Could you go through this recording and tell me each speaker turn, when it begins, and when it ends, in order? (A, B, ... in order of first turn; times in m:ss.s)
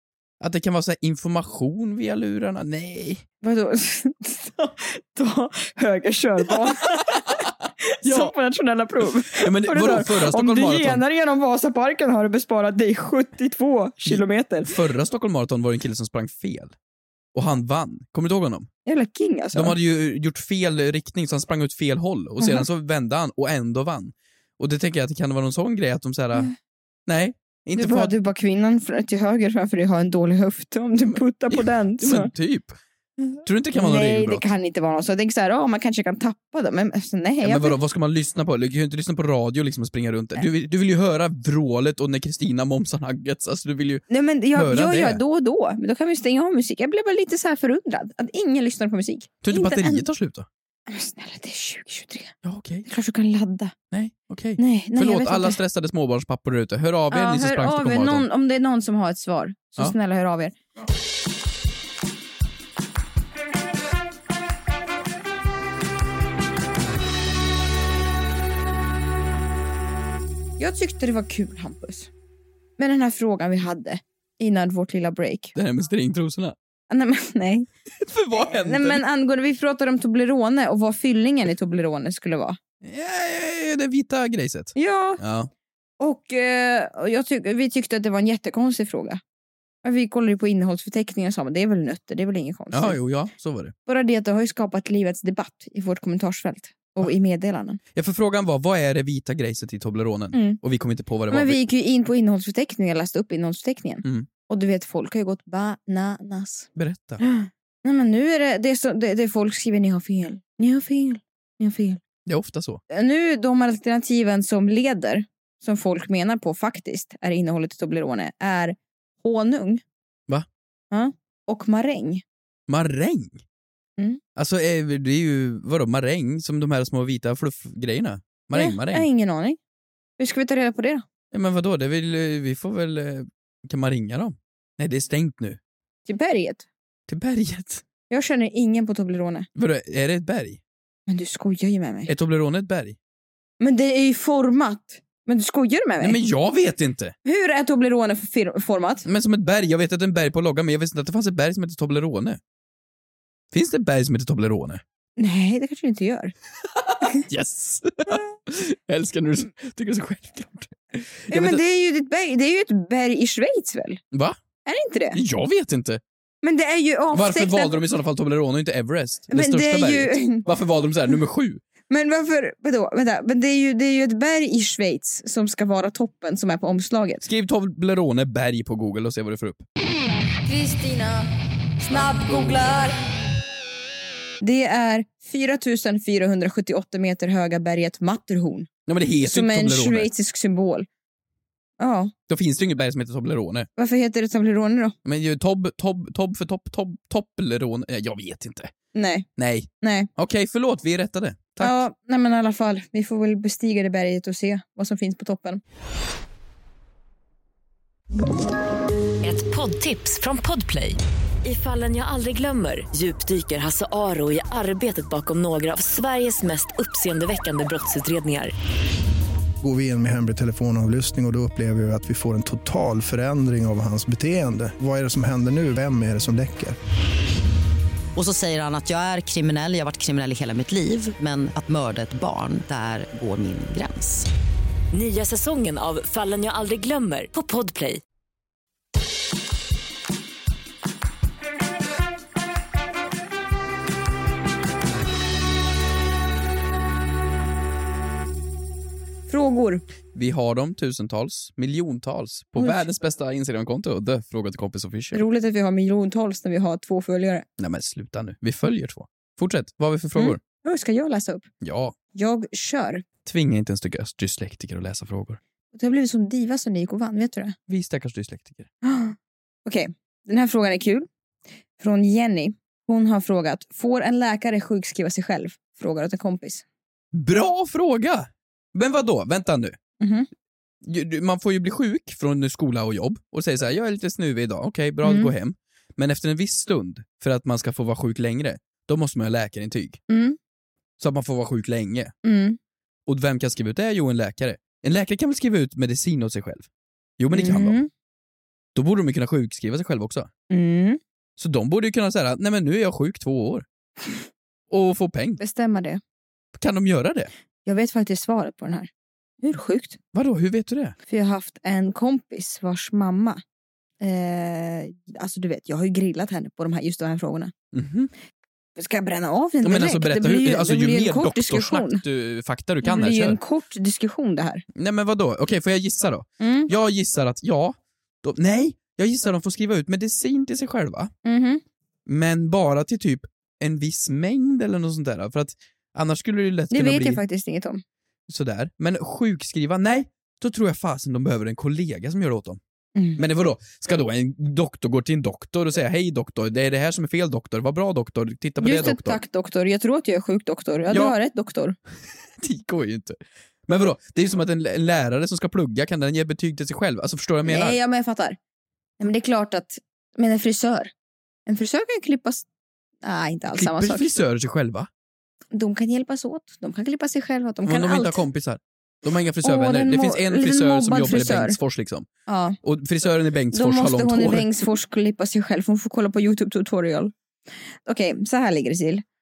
0:00.4-0:03.2 A
0:03.4-0:14.7 B
0:08.0-0:08.3 A
0:09.3-0:11.0 A
0:14.0-0:16.7 A
0:17.3-0:18.7 A
0:18.8-0:19.7 B
0:19.5-0:26.5 A
0:22.4-0:22.6 B
0:27.1-0:28.1 A
0:27.8-0:32.3 B
0:31.5-0:32.7 A
0:33.2-0:37.8 B
0:33.4-0:34.4 A
0:37.4-0:45.2 A
0:44.1-0:50.0 B
0:49.4-0:50.5 A
0:50.9-0:52.3 B
0:52.4-0:52.9 A
0:52.8-0:53.7 B
0:53.9-0:58.2 A
0:54.6-0:55.6 B
0:57.1-1:00.6 B
1:10.6-1:12.1 B
1:12.8-1:15.5 B
1:15.5-1:16.5 A
1:16.9-1:17.7 B
1:18.0-1:19.0 A
1:18.3-1:22.6 B
1:22.8-1:25.5 A
1:24.7-1:25.2 B
1:26.0-1:29.2 B
1:29.8-1:33.0 B
1:32.7-1:33.7 A
1:33.9-1:37.8 B
1:37.9-1:41.6 A
1:40.3-1:40.6 B
1:41.3-1:46.7 B
1:46.8-1:47.2 A
1:47.2-1:52.0 B
1:52.2-1:52.8 A
1:52.9-1:59.8 B
2:00.9-2:02.2 B
2:02.7-2:03.4 A
2:04.4-2:09.1 A
2:08.5-2:09.6 B
2:10.2-2:11.0 B
2:11.3-2:15.6 A
2:16.0-2:16.7 B
2:17.1-2:17.8 A
2:18.1-2:19.5 B
2:19.6-2:20.6 A
2:21.1-2:22.1 B
2:22.1-2:23.0 A
2:23.6-2:26.2 B
2:26.0-2:27.1 A
2:27.2-2:29.0 B
2:29.0-2:32.4 A
2:33.5-2:34.8 A
2:35.2-2:36.3 B
2:36.9-2:41.6 A
2:41.3-2:44.0 B
2:44.1-2:44.4 A
2:44.6-2:45.2 B
2:45.1-2:46.0 A
2:46.4-2:47.8 B
2:47.1-2:51.6 A
2:49.3-2:50.4 B
2:51.9-2:57.2 B
2:57.2-2:59.6 A
3:00.4-3:03.0 B
3:01.9-3:02.6 A
3:04.4-3:08.7 B
3:08.9-3:10.1 A
3:09.2-3:10.9 B
3:11.8-3:12.1 B
3:12.3-3:13.7 A
3:13.8-3:14.9 B
3:15.0-3:18.7 A
3:18.9-3:19.3 B
3:19.4-3:21.8 A
3:19.8-3:20.1 B
3:21.6-3:25.6 B
3:29.2-3:38.5 C
3:39.6-3:46.8 D
3:48.2-3:54.3 E
3:54.9-3:58.0 C
4:09.3-4:09.8 B
4:10.1-4:15.2 A
4:15.1-4:17.4 B
4:17.6-4:20.4 A
4:20.2-4:21.5 B
4:21.6-4:21.9 A
4:22.1-4:23.0 B
4:23.2-4:25.4 A
4:25.7-4:27.5 B
4:27.7-4:28.7 A
4:28.8-4:31.1 B
4:31.8-4:36.6 B
4:37.1-4:39.8 A
4:40.0-4:40.3 B
4:40.8-4:50.0 A
4:45.0-4:45.3 B
4:50.1-4:50.4 B
4:51.0-4:52.1 A
4:52.2-4:52.6 B
4:53.1-4:56.7 A
4:57.2-4:57.8 A
4:57.3-4:57.9 B
4:58.7-5:00.3 A
5:00.5-5:01.0 B
5:01.4-5:03.6 A
5:04.7-5:05.4 A
5:05.4-5:06.0 B
5:06.6-5:07.3 A
5:07.6-5:08.9 B
5:09.4-5:10.0 B
5:10.1-5:10.9 A
5:11.1-5:13.4 B
5:14.0-5:17.5 B
5:17.7-5:18.1 A
5:18.8-5:22.0 B
5:19.6-5:23.4 A
5:22.8-5:24.6 B
5:24.8-5:31.1 A
5:26.4-5:26.7 B
5:31.2-5:31.6 B
5:32.1-5:37.2 A
5:36.7-5:37.8 B
5:38.3-5:42.6 A
5:43.2-5:49.2 A
5:48.6-5:51.8 B
5:52.4-5:57.8 A
5:57.4-5:58.4 B
5:59.0-6:00.9 B
6:01.5-6:02.4 B
6:03.0-6:04.1 B
6:03.6-6:04.9 A
6:05.5-6:08.2 B
6:07.6-6:12.0 A
6:09.4-6:11.6 B
6:12.3-6:12.6 B
6:12.6-6:14.5 A
6:13.5-6:17.1 B
6:17.8-6:19.0 B